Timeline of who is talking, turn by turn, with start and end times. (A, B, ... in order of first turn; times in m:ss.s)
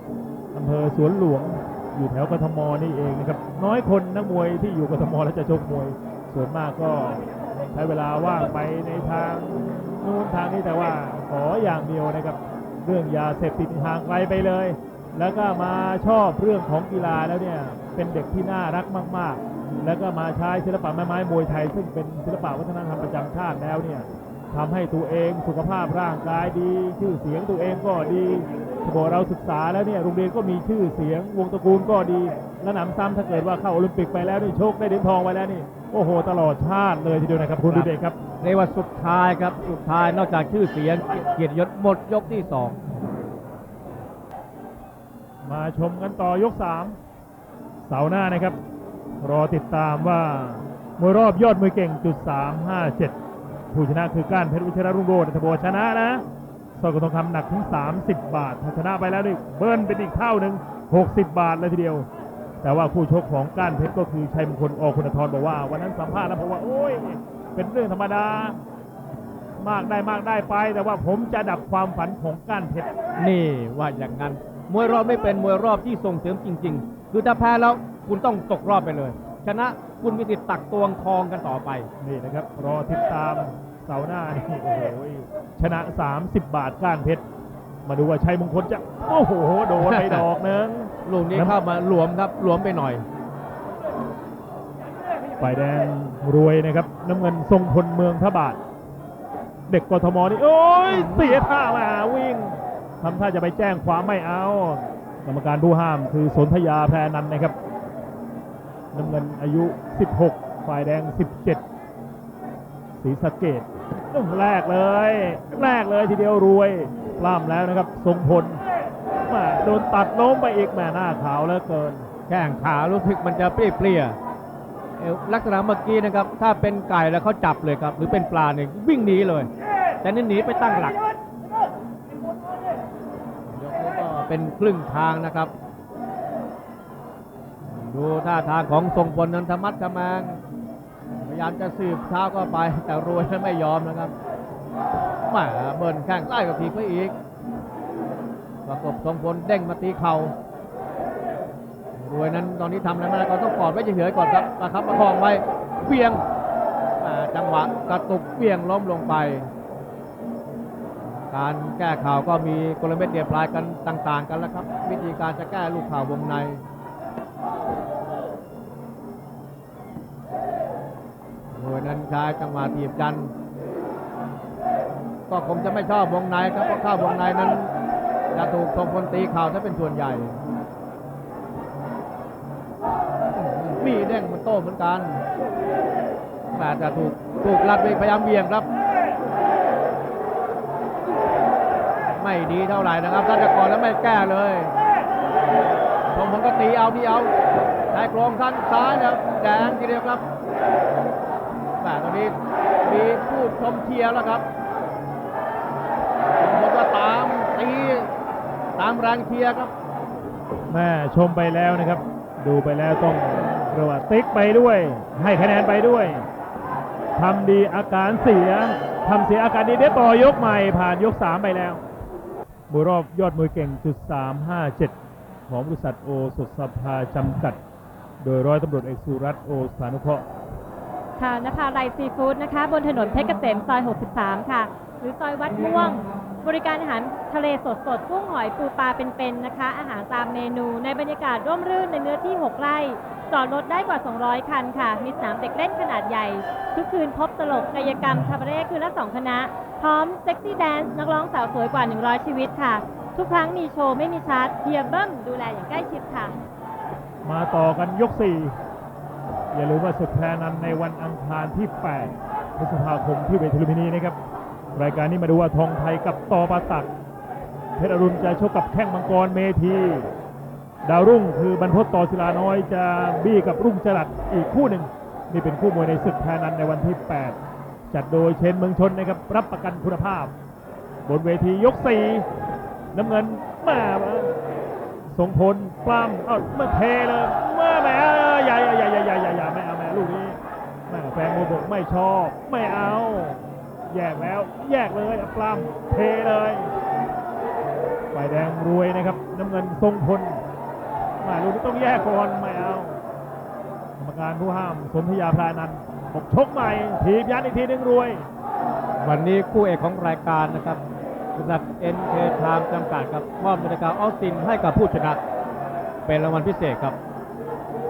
0:00.5-0:38.2 A
0:37.7-0:42.8 B
0:45.4-0:47.0 A
0:47.8-0:48.6 A
0:49.2-0:53.1 A
0:53.7-0:56.2 A
0:56.8-1:02.1 A
1:02.6-1:08.6 A
1:09.6-1:12.9 A
1:13.2-1:21.9 B
1:22.0-1:27.2 A
1:27.8-1:31.6 A
1:29.8-1:30.2 B
1:31.0-1:33.0 B
1:35.4-1:38.6 A
1:39.7-1:47.5 A
1:48.9-1:51.6 A
1:53.0-1:58.6 A
1:59.2-2:02.1 A
2:02.3-2:04.2 B
2:05.0-2:09.5 B
2:10.0-2:11.0 B
2:13.5-2:15.5 B
2:17.6-2:20.4 B
2:21.2-2:24.1 B
2:25.2-2:27.1 B
2:28.6-2:30.3 B
2:31.9-2:36.2 B
2:37.0-2:39.5 B
2:41.0-2:46.6 B
2:51.5-2:53.3 B
2:55.3-2:57.7 B
2:58.3-3:00.4 B
3:03.3-3:05.2 B
3:06.5-3:08.7 B
3:12.2-3:14.7 B
3:16.1-3:17.3 B
3:17.9-3:20.2 B
3:21.8-3:24.4 B
3:26.4-3:28.1 B
3:28.8-3:29.7 B
3:30.7-3:36.3 A
3:37.2-3:41.8 A
3:42.7-3:44.9 A
3:45.5-3:47.6 A
3:48.2-3:50.2 A
3:51.2-4:16.3 C
4:17.2-4:18.6 A
4:19.5-4:24.2 A
4:24.7-4:26.9 A
4:27.8-4:30.1 A
4:30.8-4:37.4 A
4:37.9-4:40.3 A
4:41.0-4:42.2 A
4:42.9-4:44.3 A
4:45.1-4:50.4 A
4:50.9-4:56.7 A
4:58.1-5:00.4 A
5:01.2-5:03.0 A
5:04.0-5:08.3 A
5:09.0-5:10.8 B
5:11.3-5:15.2 B
5:16.0-5:17.0 B